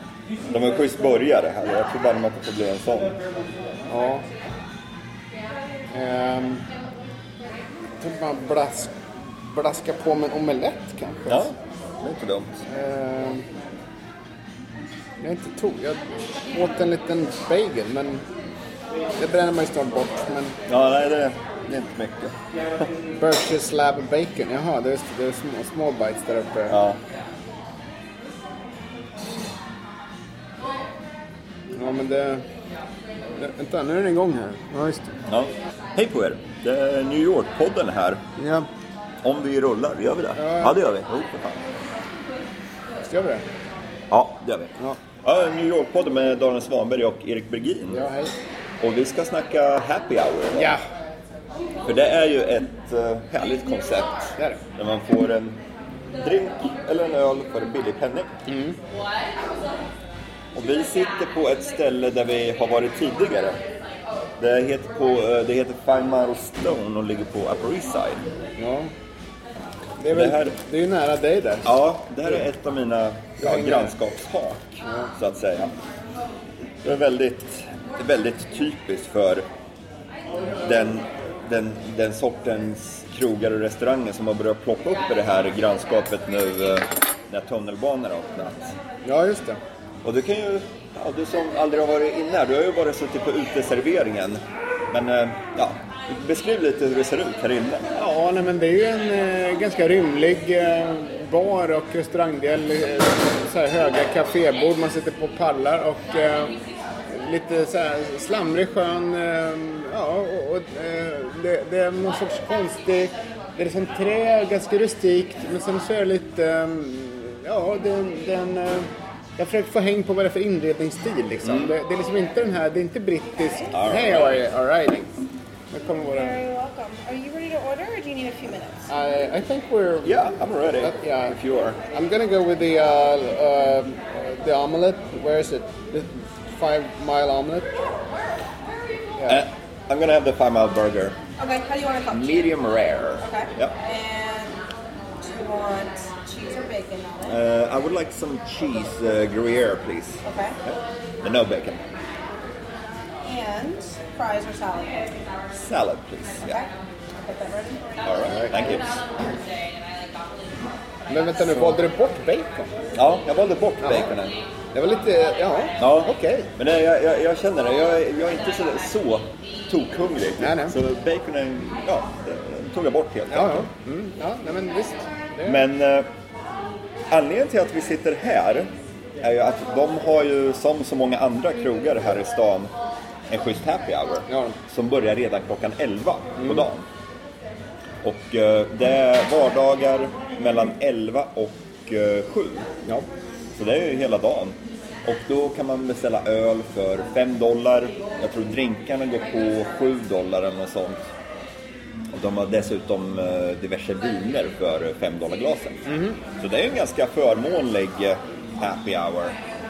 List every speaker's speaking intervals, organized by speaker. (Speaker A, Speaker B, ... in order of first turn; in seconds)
Speaker A: 0.5-3.1, 11.3-12.6, 20.7-22.9, 26.7-27.0, 35.3-38.2, 39.2-41.7, 44.1-48.0, 48.8-50.7, 51.8-55.6, 56.2-58.3, 60.5-63.6, 64.4-68.3, 70.1-70.6, 71.7-75.7, 76.8-79.4, 80.6-88.8, 90.0-97.9, 121.4-121.7, 123.7-124.4, 130.0-131.8, 139.3-141.2, 142.1-143.8, 147.2-151.8, 155.5-156.6, 158.0-159.0, 162.9-164.3, 165.8-173.6, 175.4-176.1, 177.1-182.7, 183.3-186.8, 188.0-192.7, 193.5-201.0, 202.1-209.4
Speaker B: 3.9-4.2, 5.9-6.6, 8.0-11.5, 12.7-13.4, 15.2-18.2, 19.2-20.6, 23.1-26.8, 31.7-32.5, 33.4-35.1, 38.4-38.7, 40.4-40.8, 43.1-43.4, 47.9-48.3, 50.5-50.8, 58.5-58.8, 68.6-68.9, 70.0-71.7, 73.4-73.9, 74.8-75.1, 89.0-89.6, 97.9-106.5, 107.1-125.1, 125.7-126.4, 128.9-130.2, 130.8-131.4, 131.9-137.8, 158.3-158.8, 161.1-162.7, 163.8-164.1, 164.7-166.5, 170.4-170.8, 173.3-175.6, 184.3-184.6, 186.4-186.7, 205.9-206.2
Speaker C: 126.1-128.9, 141.4-142.5, 143.2-144.6, 145.2-147.3, 150.2-150.6, 153.2-155.2, 156.4-156.7, 157.2-158.7